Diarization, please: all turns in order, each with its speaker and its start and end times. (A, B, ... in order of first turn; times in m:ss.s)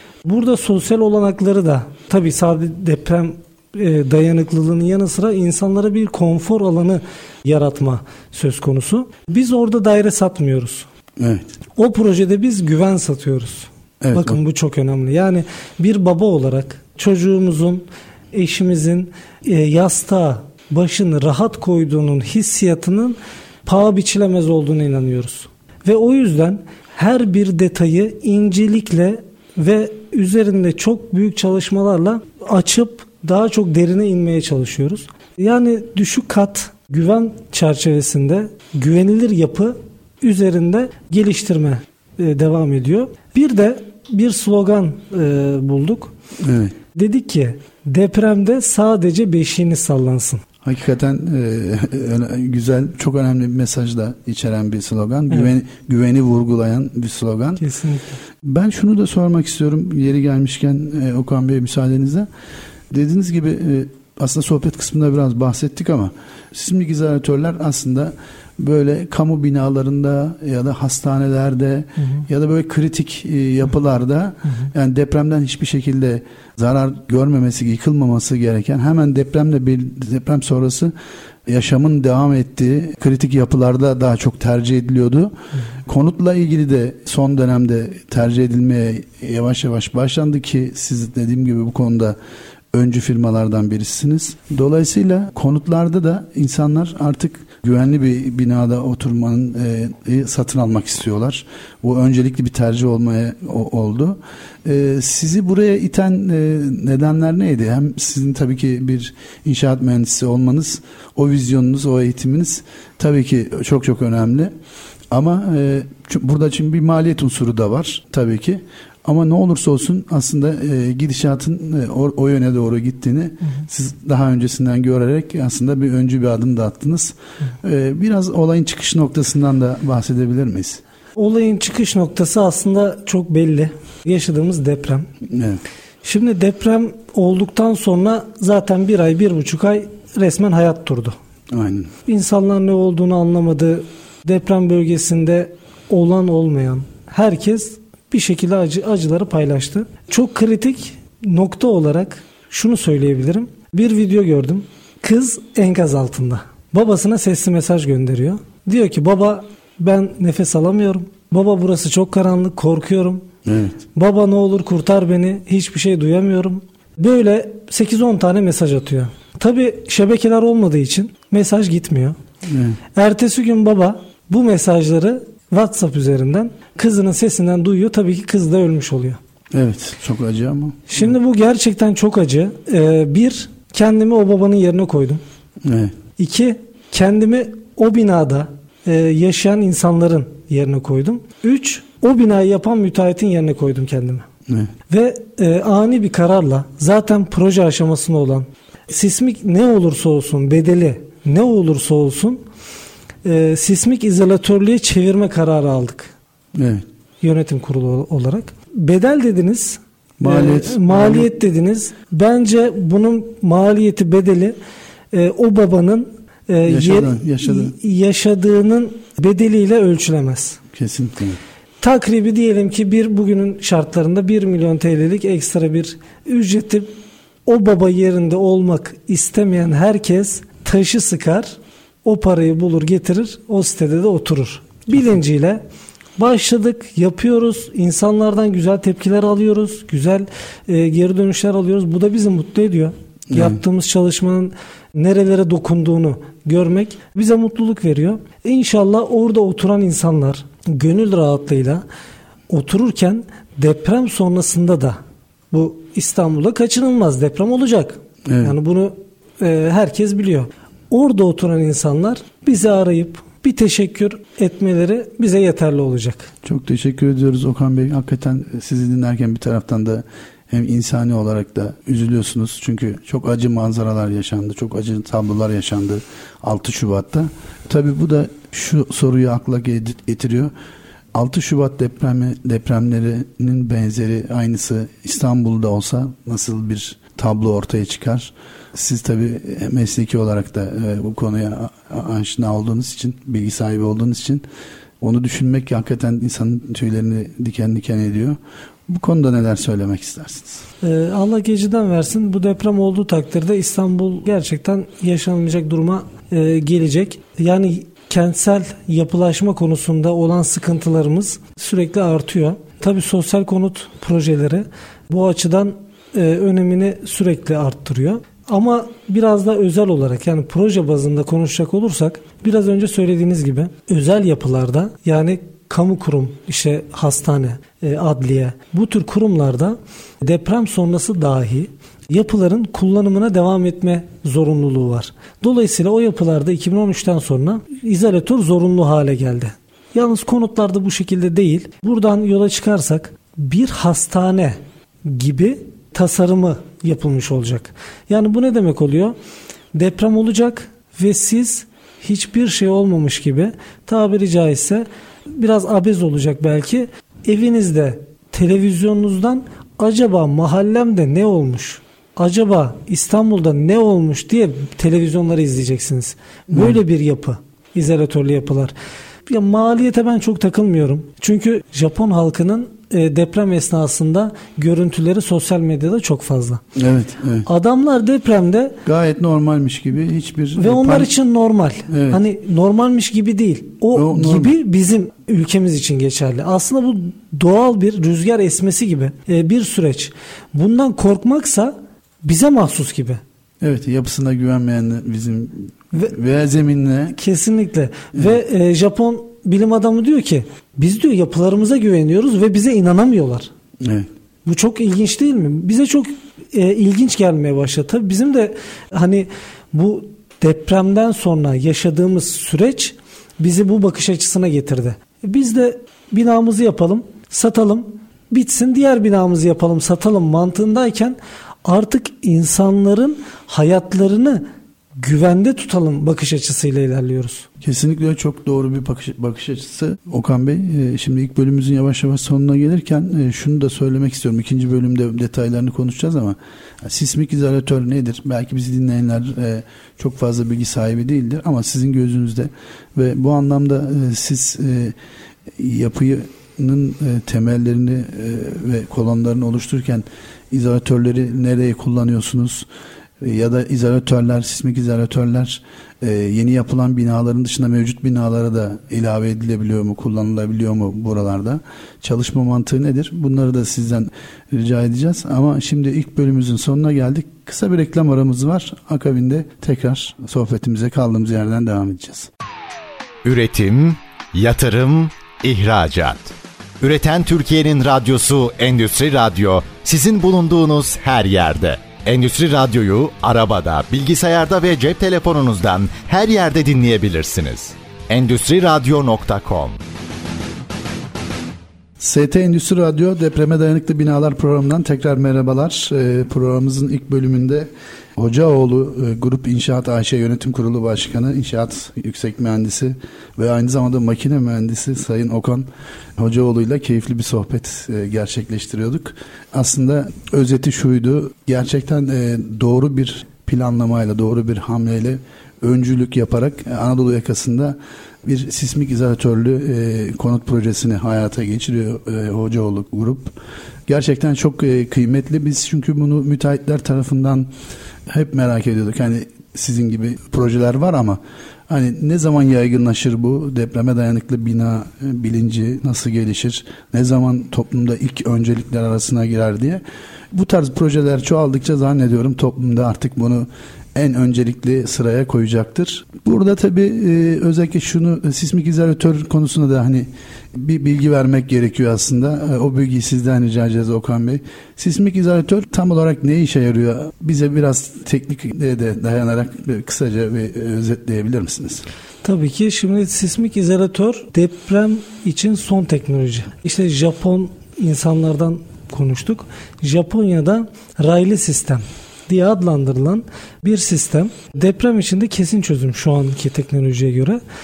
0:00.2-0:10.9 A
0:11.2-0:11.5 B
0:11.8-0:46.1 A
0:14.0-0:14.4 B
0:46.4-0:46.7 B
0:46.9-0:50.4 A
0:50.6-0:57.6 B
0:57.6-0:58.2 A
0:58.4-1:02.3 B
1:02.9-1:20.9 B
1:21.4-1:25.3 B
1:25.8-1:32.2 B
1:32.7-1:54.5 B
1:55.1-2:10.8 B
2:11.2-2:15.1 A
2:15.3-2:15.6 B
2:16.0-2:21.2 A
2:21.5-2:21.9 B
2:22.0-2:43.2 A
2:43.4-2:43.8 B
2:43.9-2:52.2 A
2:52.4-2:52.8 B
2:52.9-2:59.2 A
2:59.5-3:01.1 B
3:00.9-3:05.2 A
3:05.6-3:05.9 B
3:06.2-3:14.3 A
3:14.5-3:14.7 B
3:14.9-3:22.4 A
3:23.2-3:26.1 A
3:26.5-3:26.8 B
3:27.2-3:34.6 A
3:30.2-3:31.3 B
3:35.1-3:40.6 A
3:36.6-3:37.7 B
3:40.7-3:41.4 B
3:41.8-3:46.9 A
3:47.4-3:55.6 A
3:56.2-4:11.8 A
4:03.3-4:03.6 B
4:12.5-4:15.0 A
4:15.5-4:26.3 A
4:18.2-4:18.5 B
4:26.4-4:40.5 B
4:41.1-4:54.4 B
4:55.0-5:00.6 B
5:00.8-5:49.2 A
5:49.7-6:08.7 A
6:06.5-6:06.8 B
6:09.3-6:16.6 A
6:16.7-6:17.5 B
6:17.4-6:18.8 A
6:18.8-6:21.1 B
6:20.6-6:33.2 A
6:21.9-6:22.2 B
6:23.9-6:24.5 B
6:33.6-6:37.2 B
6:37.2-6:43.5 A
6:43.8-6:44.1 B
6:44.4-7:04.4 A
7:05.0-7:07.5 A
7:07.6-7:24.9 B
7:25.5-7:32.7 B
7:33.2-7:52.3 B
7:53.2-8:09.8 C
8:12.0-8:25.7 B
8:26.2-8:43.3 B
8:43.9-8:47.5 B
8:48.1-9:21.8 B
9:22.2-9:37.4 A